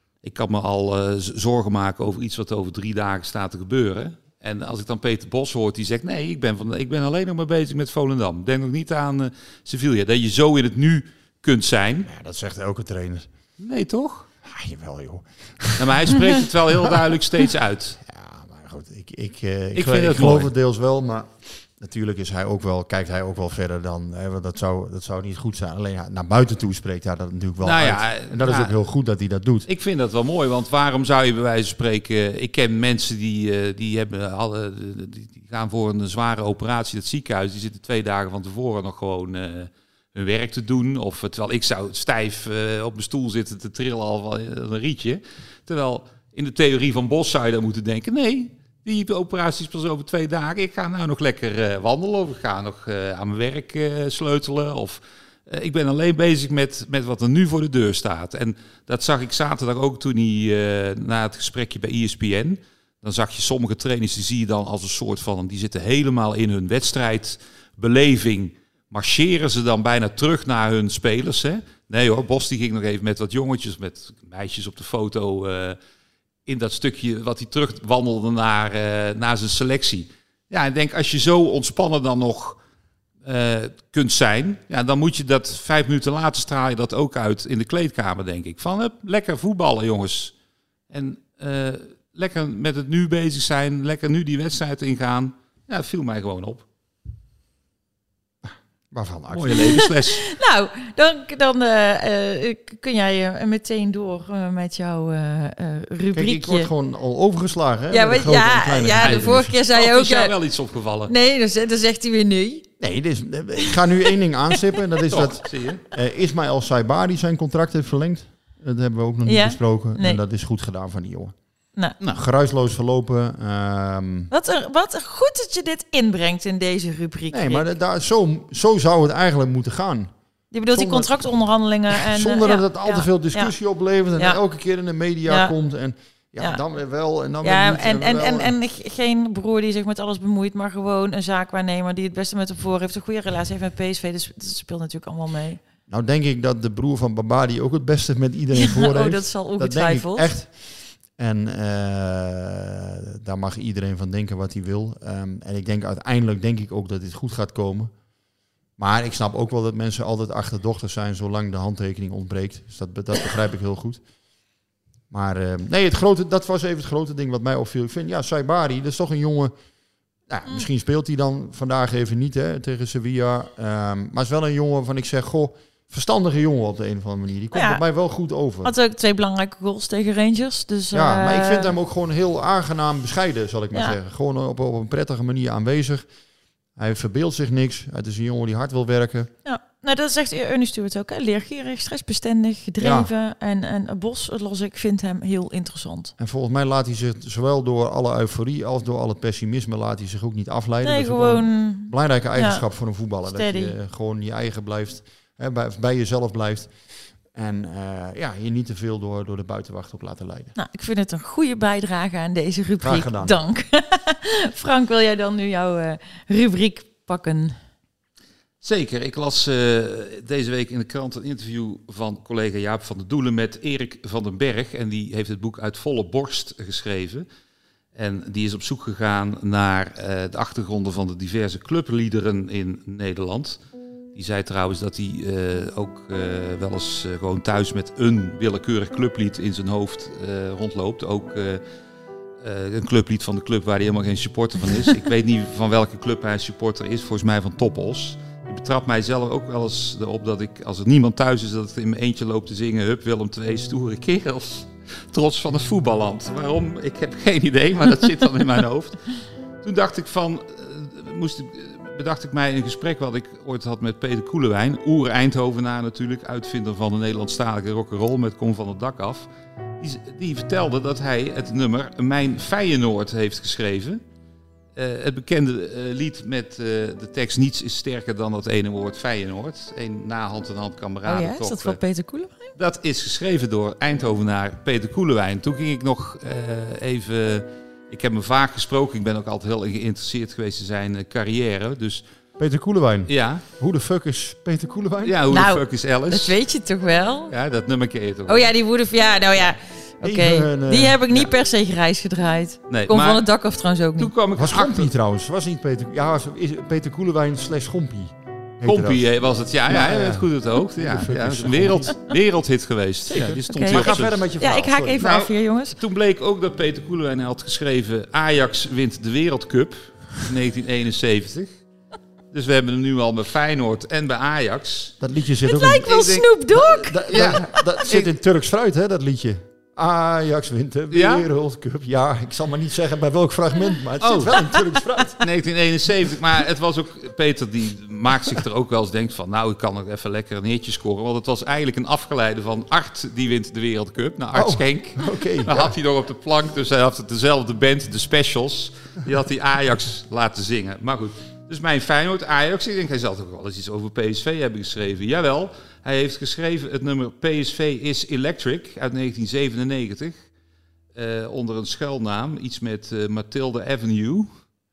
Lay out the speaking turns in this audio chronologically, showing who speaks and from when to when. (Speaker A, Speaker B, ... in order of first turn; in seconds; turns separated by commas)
Speaker A: 0.2-12.1, Speaker B: 12.1-13.3, Speaker A: 13.6-14.3, Speaker B: 14.4-16.4, Speaker A: 15.8-18.0, Speaker B: 18.1-29.7, Speaker A: 19.8-20.5, Speaker A: 27.6-28.7, Speaker A: 29.7-75.8, Speaker A: 76.5-82.6, Speaker A: 83.2-90.3, Speaker A: 90.9-96.6, Speaker B: 98.4-99.9, Speaker A: 99.3-100.2, Speaker C: 99.8-106.7, Speaker B: 106.1-109.5, Speaker C: 107.9-110.3, Speaker A: 109.0-111.1, Speaker C: 111.1-112.7, Speaker B: 112.8-121.3, Speaker A: 115.1-115.8, Speaker C: 119.3-120.2, Speaker B: 122.1-124.3, Speaker C: 124.3-127.7, Speaker B: 127.3-130.1, Speaker C: 130.5-133.5, Speaker B: 130.7-131.2, Speaker B: 131.9-138.5, Speaker C: 135.3-135.5, Speaker C: 137.4-145.6, Speaker B: 145.9-157.9, Speaker C: 148.6-150.3, Speaker B: 158.8-164.0, Speaker B: 165.1-169.5, Speaker B: 170.3-178.7, Speaker C: 177.5-177.8, Speaker C: 178.6-181.7, Speaker B: 180.9-186.1, Speaker B: 186.8-189.3, Speaker C: 189.4-196.1, Speaker B: 192.8-193.1, Speaker B: 196.2-206.7, Speaker C: 200.8-202.6, Speaker C: 203.3-203.7, Speaker B: 207.3-210.5, Speaker C: 210.6-217.6, Speaker B: 212.8-213.4, Speaker A: 218.6-227.3, Speaker A: 227.9-233.6, Speaker A: 234.1-241.6, Speaker A: 242.4-259.1, Speaker A: 259.6-269.3, Speaker A: 269.8-274.0, Speaker A: 274.8-281.8, Speaker C: 281.1-282.5, Speaker A: 282.6-292.0, Speaker B: 292.4-295.2, Speaker A: 293.1-293.4, Speaker A: 295.0-296.4, Speaker C: 295.3-297.3, Speaker A: 297.3-298.5, Speaker C: 298.3-304.1, Speaker B: 300.0-301.3, Speaker A: 302.7-303.3, Speaker A: 304.0-304.9, Speaker B: 304.4-309.1, Speaker A: 308.6-314.2, Speaker B: 309.7-312.0, Speaker B: 313.1-315.0, Speaker C: 313.5-315.8, Speaker A: 315.0-321.5, Speaker A: 322.3-325.0, Speaker B: 325.0-335.2, Speaker C: 325.4-327.6, Speaker A: 325.9-326.2, Speaker A: 327.1-328.1, Speaker A: 330.9-331.3, Speaker A: 334.0-334.4, Speaker A: 335.2-360.2, Speaker B: 344.3-345.7, Speaker A: 360.9-364.3